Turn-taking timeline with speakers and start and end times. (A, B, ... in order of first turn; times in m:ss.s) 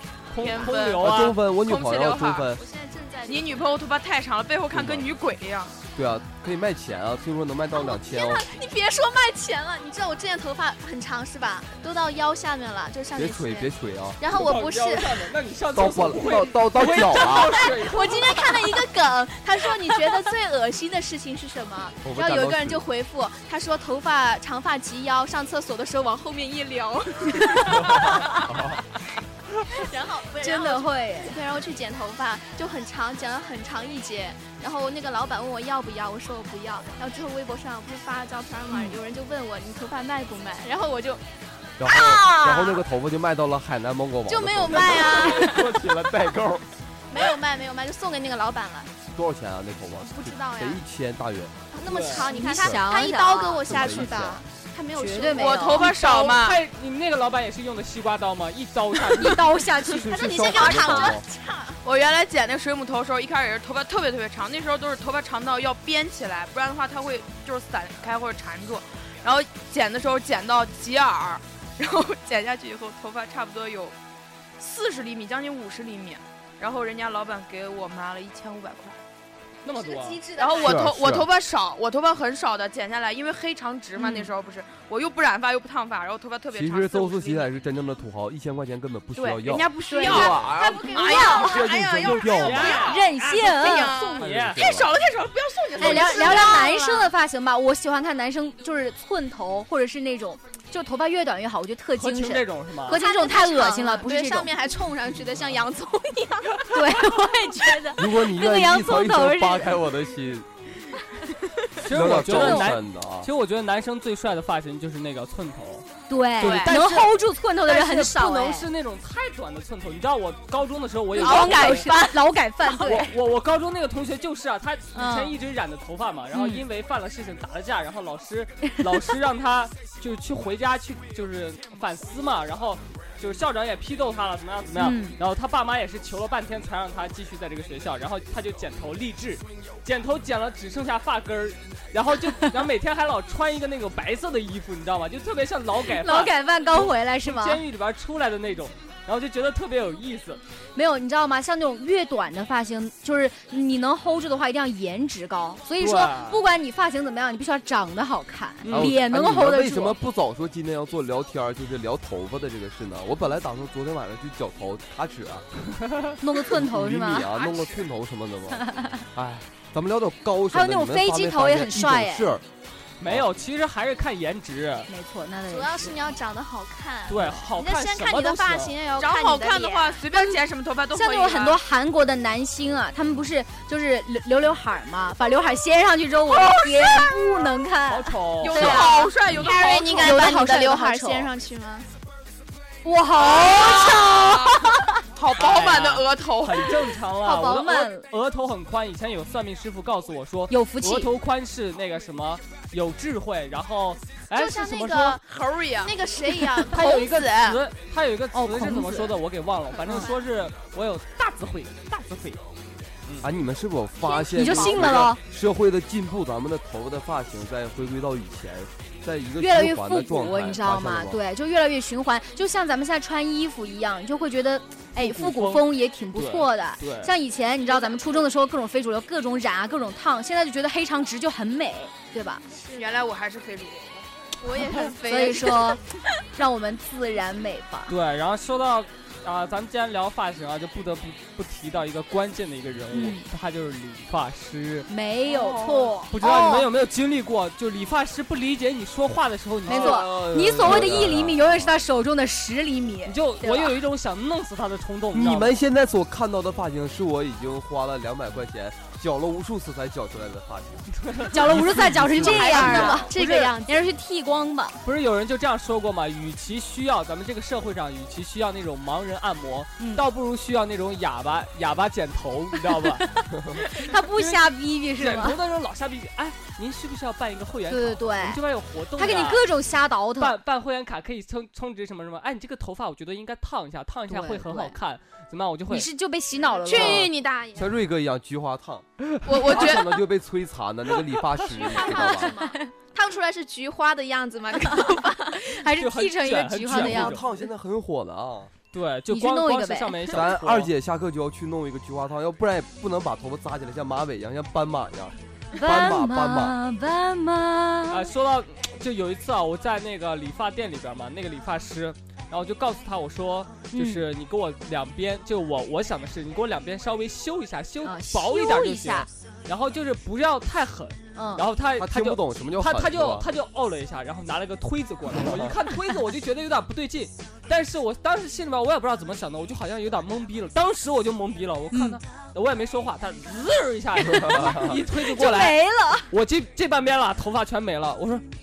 0:00.3-0:01.4 A
0:00.4-0:02.5 B
0:01.0-0:02.6 C
0:02.5-0:03.7 D
0:03.3-0:05.8 B
0:04.7-0:05.1 C
0:06.0-0:08.5 C
0:07.7-0:15.3 D
0:13.2-0:14.2 C
0:14.3-0:18.8 A
0:15.7-0:17.6 C
0:17.3-0:28.3 D
0:22.0-0:22.8 C
0:27.8-0:28.8 C
0:29.7-0:41.2 D
0:30.4-0:31.4 E
0:38.7-0:39.0 E
0:41.8-0:46.6 C
0:42.0-0:42.6 E
0:44.3-0:45.7 D
0:45.2-0:45.6 E
0:47.1-0:48.9 D
0:49.1-0:51.7 C
0:50.0-0:50.8 D
0:51.7-0:55.9 D
0:51.8-0:52.3 A
0:52.2-0:54.4 E
0:52.5-0:52.8 C
0:53.6-0:54.4 C
0:55.0-0:55.9 E
0:55.4-0:56.6 B
0:55.8-0:59.4 A
0:59.1-1:01.2 E
0:59.9-1:01.2 C
1:00.0-1:01.8 D
1:01.8-1:14.0 B
1:14.6-1:19.0 B
1:19.6-1:20.2 A
1:19.7-1:20.9 D
1:20.4-1:27.5 B
1:20.6-1:21.3 C
1:24.0-1:24.3 E
1:26.5-1:32.9 C
1:29.2-1:36.8 B
1:29.9-1:31.7 E
1:30.0-1:31.5 D
1:32.0-1:34.7 A
1:32.6-1:34.1 E
1:34.2-1:34.9 C
1:35.8-1:44.5 E
1:35.8-1:37.1 D
1:42.0-1:43.0 A
1:42.9-1:46.9 D
1:46.7-1:49.8 E
1:48.0-1:50.5 C
1:51.8-1:55.9 A
1:51.9-1:53.3 C
1:52.0-1:52.8 E
1:56.1-1:58.7 E
1:56.4-1:57.1 A
1:56.4-1:56.7 B
1:57.7-2:01.9 A
2:01.1-2:03.1 E
2:01.2-2:02.2 D
2:02.7-2:30.4 A
2:04.9-2:05.4 E
2:06.3-2:06.6 E
2:14.8-2:15.2 E
2:25.8-2:27.6 E
2:30.8-2:40.0 E
2:35.8-2:36.4 A
2:38.6-2:39.0 A
2:38.7-2:45.4 C
2:45.8-2:46.2 A
2:46.2-2:47.3 E
2:46.5-2:52.4 C
2:47.3-2:47.9 B
2:48.6-2:49.0 E
2:50.5-2:52.3 E
2:53.0-2:54.9 A
2:54.9-2:56.0 E
2:55.5-3:00.0 D
2:57.1-2:58.8 A
2:59.0-3:01.6 B
3:00.1-3:00.4 E
3:00.9-3:09.1 E
3:06.3-3:07.2 B
3:07.9-3:08.9 A
3:08.4-3:10.3 B
3:08.6-3:11.9 D
3:10.0-3:11.3 E
3:12.8-3:14.9 E
3:13.2-3:16.7 B
3:15.4-3:25.2 A
3:17.2-3:18.1 E
3:20.5-3:21.1 E
3:24.3-3:25.3 D
3:25.2-3:25.9 B
3:25.8-3:27.6 D
3:26.7-3:32.4 A
3:28.3-3:29.2 E
3:33.2-3:41.2 C
3:34.0-3:35.0 D
3:34.3-3:35.2 E
3:39.4-3:52.4 E
3:45.0-3:47.1 A
3:47.7-3:48.2 D
3:52.6-3:52.9 D
3:52.7-3:54.1 B
3:54.4-3:55.8 D
3:54.8-3:55.8 E
3:56.3-3:57.9 E
3:57.9-4:04.9 A
4:02.9-4:03.2 E
4:04.9-4:06.7 E
4:05.3-4:06.0 B
4:06.1-4:11.3 A
4:09.7-4:13.8 E
4:09.7-4:11.7 C
4:13.1-4:15.6 A
4:15.1-4:20.9 C
4:21.0-4:23.0 A
4:21.3-4:24.8 E
4:21.4-4:23.1 C
4:22.1-4:23.8 D
4:24.8-4:33.1 A
4:29.8-4:30.0 E
4:33.6-4:35.4 E
4:34.2-4:39.4 A
4:37.7-4:38.4 E
4:39.0-4:40.4 E
4:40.2-4:45.9 A
4:44.1-4:44.8 E
4:45.7-4:47.1 E
4:46.5-4:47.8 D
4:46.7-4:52.4 C
4:49.3-4:50.0 B
4:51.4-4:55.5 D
4:51.8-4:52.7 E
4:54.7-4:57.3 E
4:55.8-4:57.2 A
4:56.7-4:58.5 C
4:58.7-5:00.7 A
4:59.1-5:00.2 E
5:00.1-5:06.6 C
5:05.5-5:08.1 E
5:07.9-5:35.6 A
5:13.7-5:14.1 E
5:17.8-5:19.1 E
5:21.2-5:21.5 E
5:21.8-5:23.3 C
5:25.2-5:25.5 C
5:31.7-5:32.0 E
5:34.1-5:36.1 E
5:34.3-5:34.7 C
5:36.1-5:38.3 A